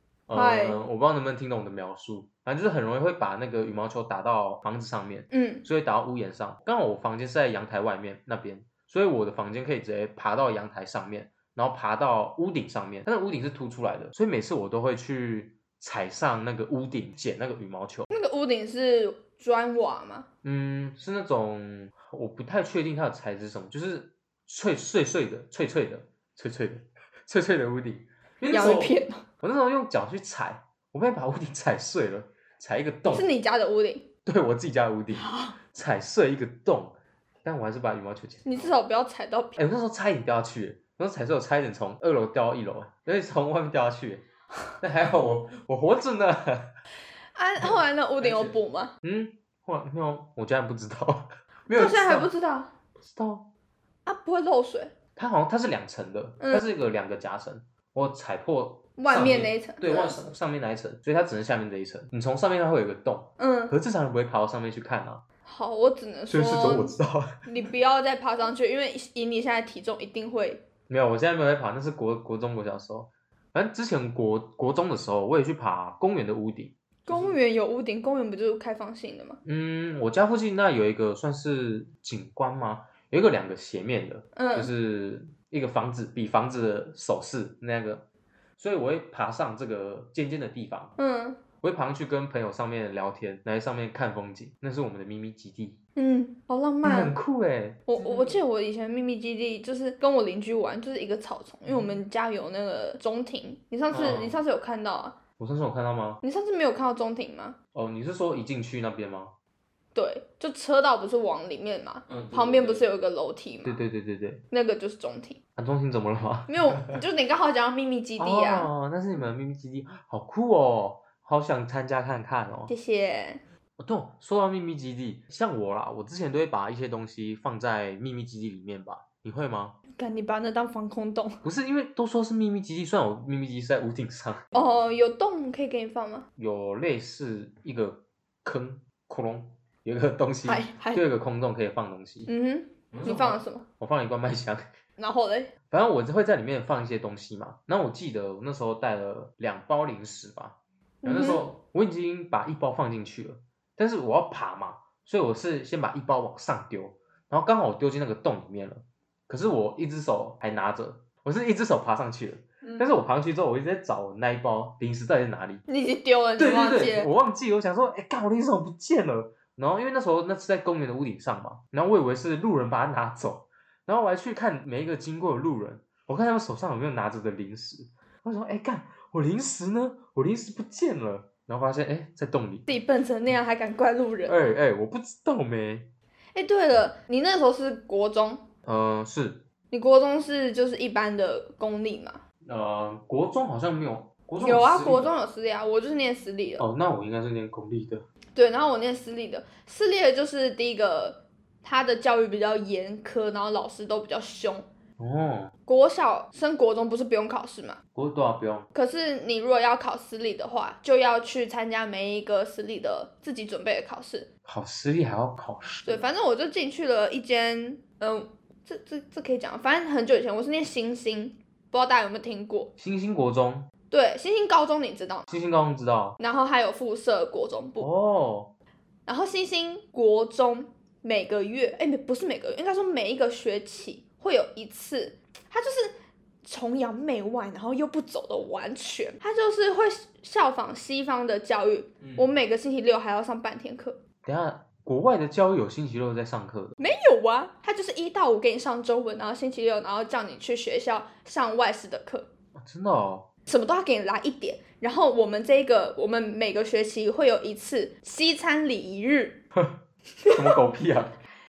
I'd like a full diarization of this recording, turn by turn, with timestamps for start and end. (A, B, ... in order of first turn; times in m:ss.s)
0:00.3-0:18.1 A
0:00.3-0:00.8 B
0:05.3-0:05.6 B
0:18.1-0:20.3 B
0:20.4-0:33.3 A
0:28.5-0:29.2 B
0:33.0-0:34.0 B
0:34.2-0:38.7 A
0:35.1-0:35.5 B
0:38.4-0:39.6 B
0:39.6-0:44.2 A
0:44.8-0:46.7 A
0:47.3-0:48.9 B
0:47.6-0:52.3 A
0:51.7-0:52.7 B
0:53.0-0:53.5 A
0:54.0-0:54.9 B
0:55.2-1:05.2 A
0:56.4-0:56.6 B
0:59.0-1:00.2 B
1:03.4-1:03.7 B
1:05.4-1:10.6 B
1:06.3-1:07.4 A
1:10.9-1:17.4 A
1:17.0-1:19.4 B
1:19.4-1:28.0 A
1:24.3-1:24.7 B
1:28.6-1:30.9 A
1:31.0-1:31.4 B
1:31.6-1:35.8 A
1:36.0-1:37.1 B
1:36.8-1:38.4 A
1:37.9-1:45.2 B
1:41.6-1:42.0 A
1:43.9-1:44.4 A
1:45.4-1:46.2 A
1:46.2-1:47.6 B
1:47.7-1:49.3 A
1:49.9-1:53.8 B
1:52.1-1:52.8 A
1:53.6-1:54.4 A
1:54.5-1:55.4 B
1:55.6-1:57.0 A
1:56.5-1:58.7 B
1:58.2-2:02.7 A
2:02.7-2:03.4 B
2:03.8-2:09.8 A
2:10.0-2:11.4 B
2:11.4-2:14.4 A
2:14.5-2:16.3 B
2:16.4-2:22.3 A
2:20.4-2:21.0 B
2:22.3-2:23.6 B
2:22.9-2:24.6 A
2:25.0-2:25.5 B
2:25.7-2:45.6 A
2:31.0-2:31.5 B
2:45.7-2:47.1 B
2:46.4-3:02.7 A
3:02.7-3:04.4 B
3:04.2-3:05.9 A
3:06.3-3:08.4 B
3:08.6-3:09.4 A
3:09.7-3:12.2 B
3:12.4-3:15.1 A
3:14.4-3:16.6 B
3:16.6-3:18.0 A
3:18.3-3:24.7 B
3:25.0-3:25.5 A
3:25.7-3:27.8 B
3:27.9-3:28.7 A
3:28.7-3:34.3 B
3:34.4-3:36.1 A
3:35.8-3:42.7 B
3:42.8-3:43.7 A
3:43.9-3:45.3 B
3:45.3-3:46.2 A
3:46.2-3:47.9 B
3:47.8-3:48.5 A
3:49.0-3:55.9 B
3:56.4-4:04.0 B
4:04.2-4:06.8 A
4:06.8-4:12.3 B
4:12.6-4:13.3 A
4:13.5-4:19.4 B
4:20.2-4:20.6 B
4:20.3-4:21.1 A